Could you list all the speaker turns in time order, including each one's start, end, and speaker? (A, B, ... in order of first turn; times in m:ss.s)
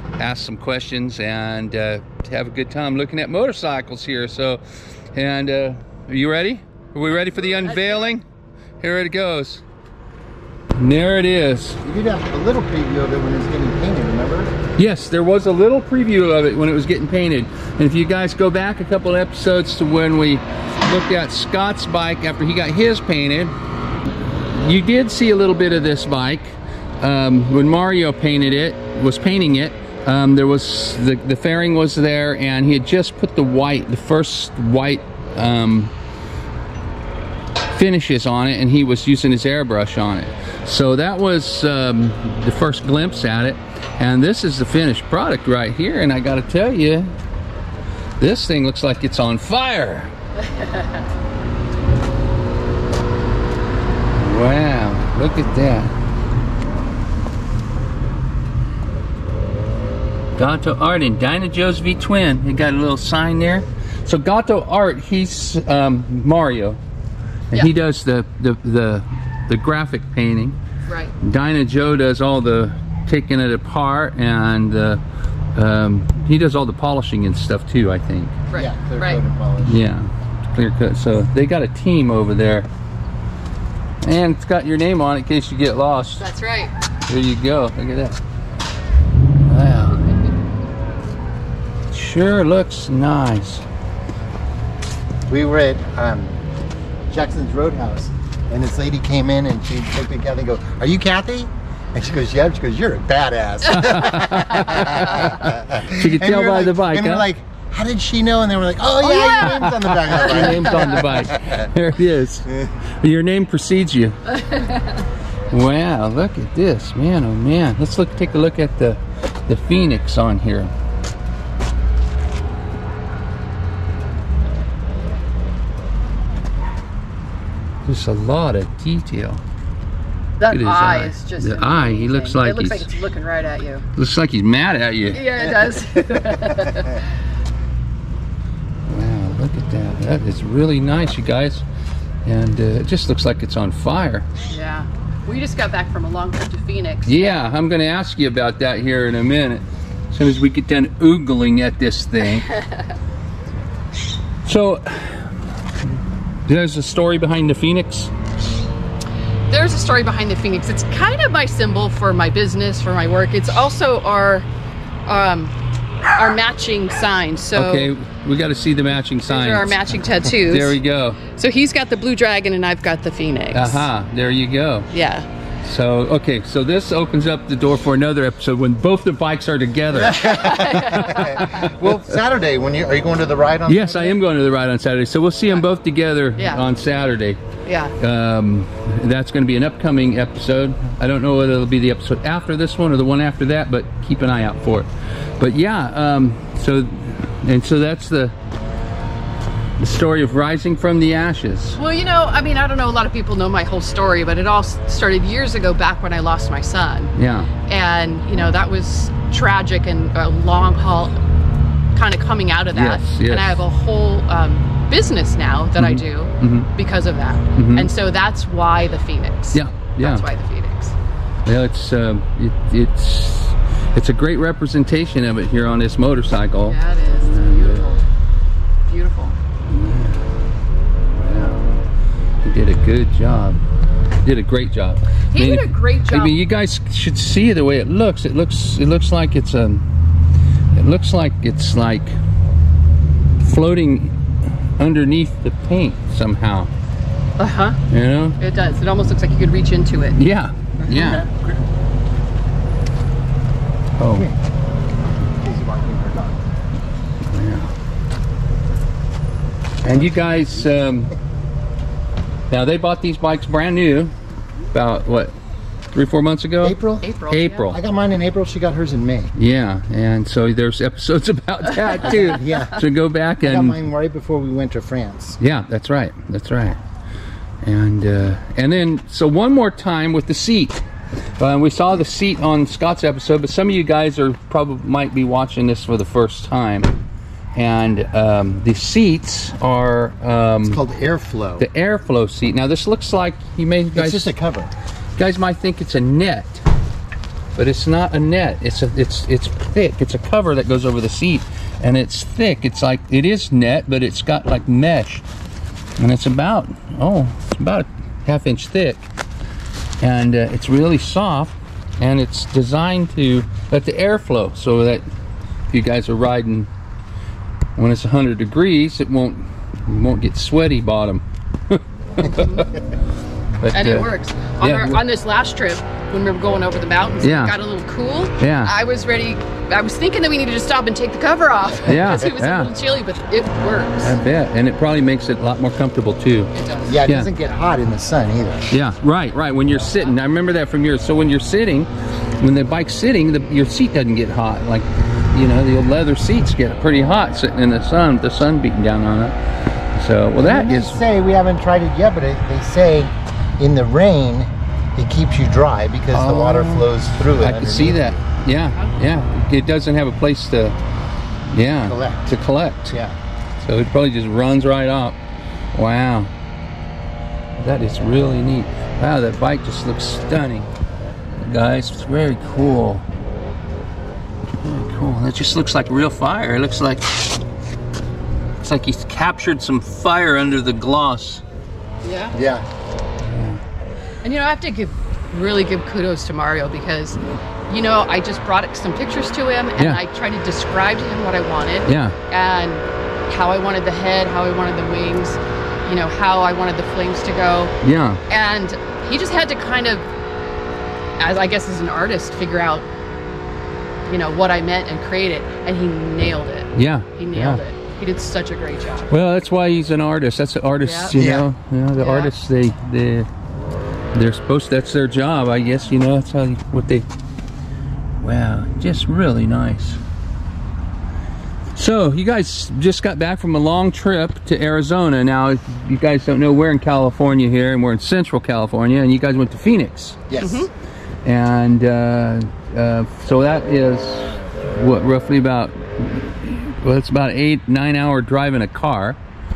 0:00.2-0:08.2 A
0:07.4-0:08.0 B
0:08.8-0:09.6 A
0:10.8-0:11.8 A
0:11.8-0:14.5 C
0:14.8-0:23.5 A
0:24.3-0:35.9 A
0:37.7-0:47.1 A
0:48.2-0:50.1 A
0:54.1-0:55.9 A
1:00.4-1:06.8 A
1:07.5-1:10.6 A
1:10.9-1:11.1 B
1:11.2-1:15.0 A
1:15.6-1:18.4 A
1:18.5-1:19.2 B
1:18.5-1:19.8 C
1:19.6-1:22.7 A
1:24.0-1:26.2 A
1:26.2-1:26.7 B
1:27.1-1:28.2 A
1:29.5-1:30.0 A
1:31.9-1:33.6 A
1:35.3-1:36.4 C
1:37.1-1:51.7 C
1:43.7-1:47.3 A
1:49.1-1:49.6 B
1:49.4-1:54.6 A
1:50.3-1:50.8 B
1:55.5-2:00.7 A
2:07.9-2:09.4 A
2:10.4-2:13.8 B
2:10.5-2:12.9 A
2:14.0-2:15.3 A
2:15.1-2:17.1 B
2:16.1-2:16.6 C
2:18.9-2:21.6 A
2:22.2-2:24.3 A
2:24.5-2:27.3 B
2:27.1-2:32.5 A
2:34.4-2:35.3 A
2:36.5-2:38.1 A
2:39.5-2:44.5 B
2:45.1-2:45.5 B
2:46.1-2:47.9 B
2:47.6-2:49.8 A
2:49.3-2:53.9 B
2:50.4-2:51.2 A
2:53.5-2:54.9 A
2:54.9-2:55.3 B
2:55.6-3:01.9 A
2:59.9-3:04.2 C
3:00.2-3:01.6 B
3:03.7-3:07.4 A
3:06.4-3:06.6 B
3:07.7-3:07.9 B
3:08.0-3:18.4 A
3:19.8-3:21.8 A
3:21.8-3:27.1 B
3:27.2-3:27.5 A
3:27.7-3:31.2 B
3:31.9-3:40.9 B
3:32.7-3:33.6 A
3:35.8-3:36.7 A
3:37.6-3:37.9 A
3:39.5-3:40.3 A
3:41.5-3:47.9 A
3:46.6-3:48.0 B
3:48.9-3:49.4 B
3:49.7-3:50.2 A
3:51.2-3:51.6 A
3:52.4-3:53.6 A
3:54.2-3:59.8 A
3:55.3-3:56.4 B
4:00.7-4:02.2 A
4:03.4-4:04.1 A
4:04.8-4:06.7 A
4:07.4-4:07.8 B
4:07.9-4:08.4 A
4:08.4-4:10.2 B
4:10.2-4:11.3 A
4:10.8-4:11.6 C
4:14.0-4:14.3 A
4:15.4-4:16.4 C
4:17.3-4:17.7 A
4:19.8-4:21.1 A
4:22.5-4:24.1 A
4:24.7-4:25.4 A
4:25.9-4:26.8 A
4:26.6-4:27.1 C
4:27.0-4:27.7 B
4:27.3-4:27.8 A
4:27.7-4:29.3 C
4:29.4-4:33.8 A
4:32.0-4:32.8 C
4:33.4-4:35.4 C
4:35.4-4:36.8 A
4:37.6-4:40.8 A
4:41.4-4:46.9 A
4:47.6-4:50.8 A
4:50.7-4:51.7 C
4:51.6-4:54.3 A
4:54.0-4:54.7 C
4:55.2-4:56.6 A
4:57.6-5:05.2 A
5:06.0-5:09.1 A
5:10.0-5:15.0 A
5:15.7-5:16.7 A
5:17.8-5:22.6 A
5:22.3-5:22.7 B
5:23.6-5:25.0 A
5:23.7-5:34.2 B
5:27.2-5:27.6 A
5:28.4-5:28.8 A
5:31.8-5:32.7 A
5:34.0-5:36.5 A
5:36.6-5:37.0 B
5:36.9-5:38.7 C
5:37.0-5:37.3 A
5:38.7-5:49.4 A
5:49.9-5:51.0 A
5:50.4-5:58.2 C
5:56.1-6:00.8 A
6:01.5-6:03.0 A
6:01.9-6:02.3 C
6:02.9-6:03.2 C
6:03.6-6:05.2 A
6:05.7-6:06.3 A
6:07.6-6:10.7 A
6:11.4-6:13.0 A
6:14.6-6:17.4 A
6:18.6-6:21.4 A
6:22.0-6:22.4 B
6:22.3-6:22.6 C
6:23.2-6:23.6 A
6:24.2-6:37.7 B
6:31.9-6:32.2 A
6:37.8-6:38.2 A
6:38.3-6:40.1 B
6:41.2-6:42.9 B
6:44.1-6:49.1 B
6:46.8-6:47.6 A
6:49.1-6:53.3 A
6:50.8-6:51.1 B
6:51.1-6:51.5 C
6:52.0-6:52.3 B
6:54.1-6:57.1 A
6:58.2-7:00.0 A
7:01.7-7:10.3 A
7:10.3-7:10.6 C
7:10.4-7:10.7 B
7:11.2-7:19.2 A